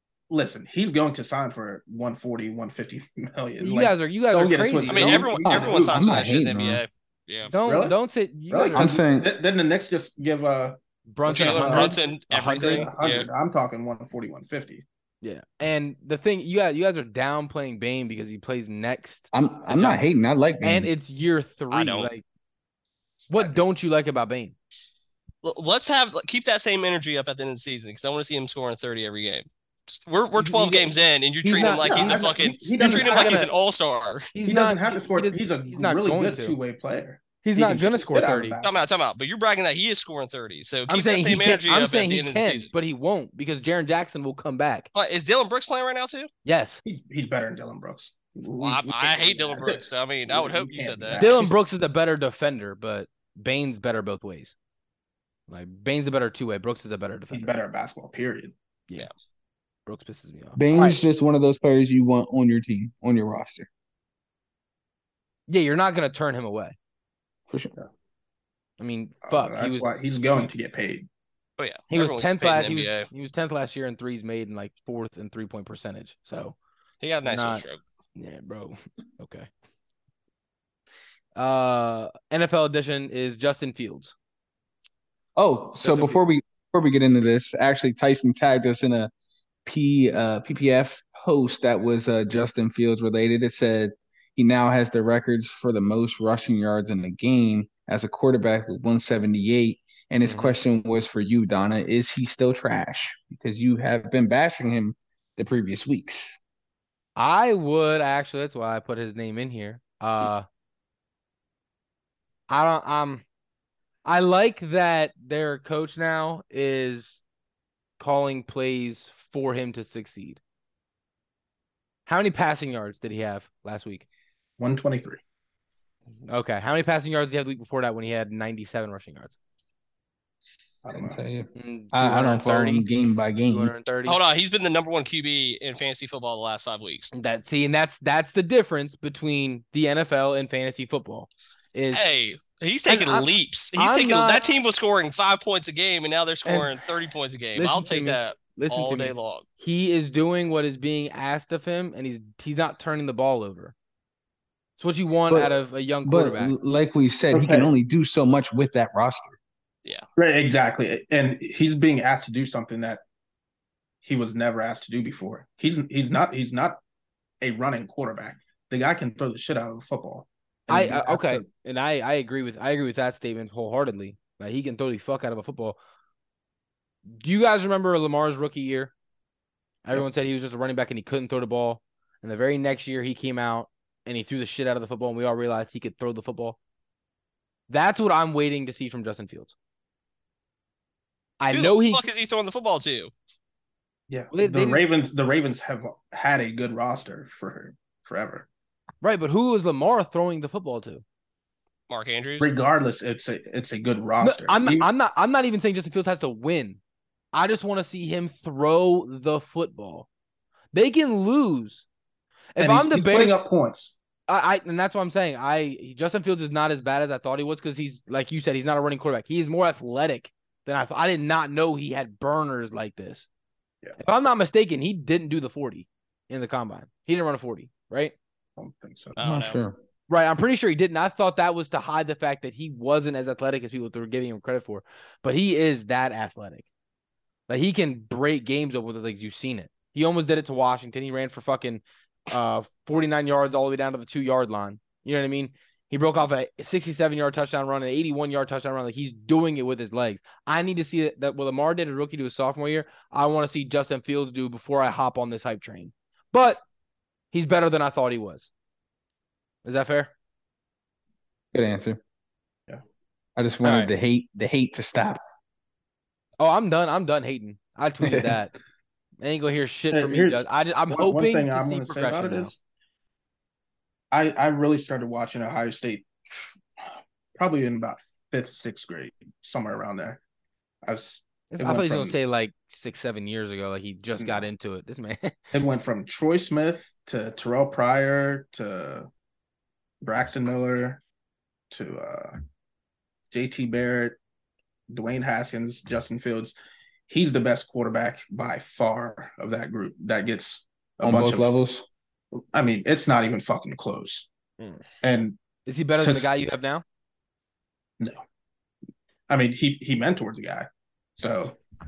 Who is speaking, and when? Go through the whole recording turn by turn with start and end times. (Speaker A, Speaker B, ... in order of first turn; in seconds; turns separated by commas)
Speaker A: 0.3-6.2, Speaker B: 3.6-5.3, Speaker C: 4.9-7.5, Speaker D: 5.4-6.8, Speaker B: 7.5-9.0, Speaker A: 7.6-7.9, Speaker A: 8.5-12.0, Speaker D: 8.7-9.3, Speaker B: 11.1-12.9, Speaker C: 11.3-13.3, Speaker A: 12.6-14.8, Speaker B: 15.2-20.0, Speaker D: 19.3-20.9, Speaker B: 20.6-22.2, Speaker C: 21.7-22.1, Speaker B: 23.3-24.5, Speaker C: 25.4-34.3, Speaker B: 30.4-33.5, Speaker A: 31.5-33.5, Speaker B: 34.3-36.6, Speaker A: 34.5-38.8, Speaker B: 37.4-38.6, Speaker C: 38.6-42.7, Speaker B: 40.9-44.9, Speaker C: 44.9-46.3, Speaker B: 46.4-46.8, Speaker A: 46.8-51.5, Speaker C: 48.6-51.5, Speaker B: 51.2-54.5, Speaker B: 55.5-57.5, Speaker A: 57.3-58.5, Speaker B: 59.9-61.0, Speaker D: 60.5-63.7, Speaker B: 65.5-66.8, Speaker D: 67.5-67.7, Speaker B: 68.8-69.9, Speaker A: 69.2-71.1, Speaker C: 71.6-73.1, Speaker B: 71.9-76.6, Speaker C: 77.0-77.8, Speaker B: 77.2-77.6, Speaker B: 78.1-79.5, Speaker B: 81.3-84.1, Speaker D: 85.3-89.1, Speaker B: 85.8-86.2, Speaker D: 89.6-106.4, Speaker B: 100.2-100.5, Speaker B: 107.2-110.5, Speaker B: 112.5-113.2, Speaker B: 114.0-117.2, Speaker B: 118.0-120.4, Speaker B: 122.0-124.0, Speaker A: 124.6-125.2, Speaker B: 126.3-129.3, Speaker A: 130.8-131.2, Speaker D: 130.9-133.7, Speaker B: 131.5-132.9, Speaker B: 133.4-134.2, Speaker C: 134.1-137.1, Speaker B: 137.1-142.0, Speaker C: 141.9-149.4, Speaker B: 142.9-144.4, Speaker B: 146.4-146.7, Speaker B: 147.5-153.7, Speaker B: 154.8-156.6, Speaker D: 155.3-159.4, Speaker A: 157.3-157.7, Speaker A: 160.2-163.0, Speaker A: 164.0-166.8, Speaker A: 167.4-171.5, Speaker B: 170.7-175.8, Speaker B: 177.2-178.9, Speaker B: 179.8-186.6, Speaker B: 187.7-189.5, Speaker B: 191.4-192.0, Speaker C: 191.5-193.1, Speaker A: 194.1-198.5, Speaker B: 194.3-194.8, Speaker B: 199.0-201.0, Speaker C: 201.9-202.5, Speaker A: 202.4-204.9, Speaker B: 204.2-206.8, Speaker B: 207.3-210.1, Speaker B: 210.7-211.8, Speaker B: 212.6-213.3, Speaker A: 212.6-213.9, Speaker B: 214.3-223.3, Speaker B: 224.0-228.1, Speaker A: 228.6-229.2, Speaker C: 229.1-229.6, Speaker D: 229.2-229.8, Speaker B: 230.1-236.7, Speaker B: 237.5-256.6, Speaker B: 257.3-258.5, Speaker B: 259.6-260.1, Speaker D: 261.5-262.0, Speaker D: 263.4-265.2, Speaker B: 263.6-263.9, Speaker B: 266.4-268.5, Speaker D: 268.0-268.4, Speaker B: 269.2-272.5, Speaker A: 269.9-272.6, Speaker A: 274.1-276.5, Speaker A: 277.3-280.2, Speaker A: 280.8-282.2, Speaker B: 281.5-285.4, Speaker A: 285.5-289.1, Speaker A: 290.0-291.0, Speaker A: 291.7-292.4, Speaker A: 293.3-294.2, Speaker A: 294.9-296.5, Speaker A: 297.1-301.5, Speaker D: 301.0-301.9, Speaker A: 302.3-304.3, Speaker A: 305.0-305.4, Speaker B: 305.6-306.8, Speaker A: 306.0-306.3, Speaker A: 309.3-311.6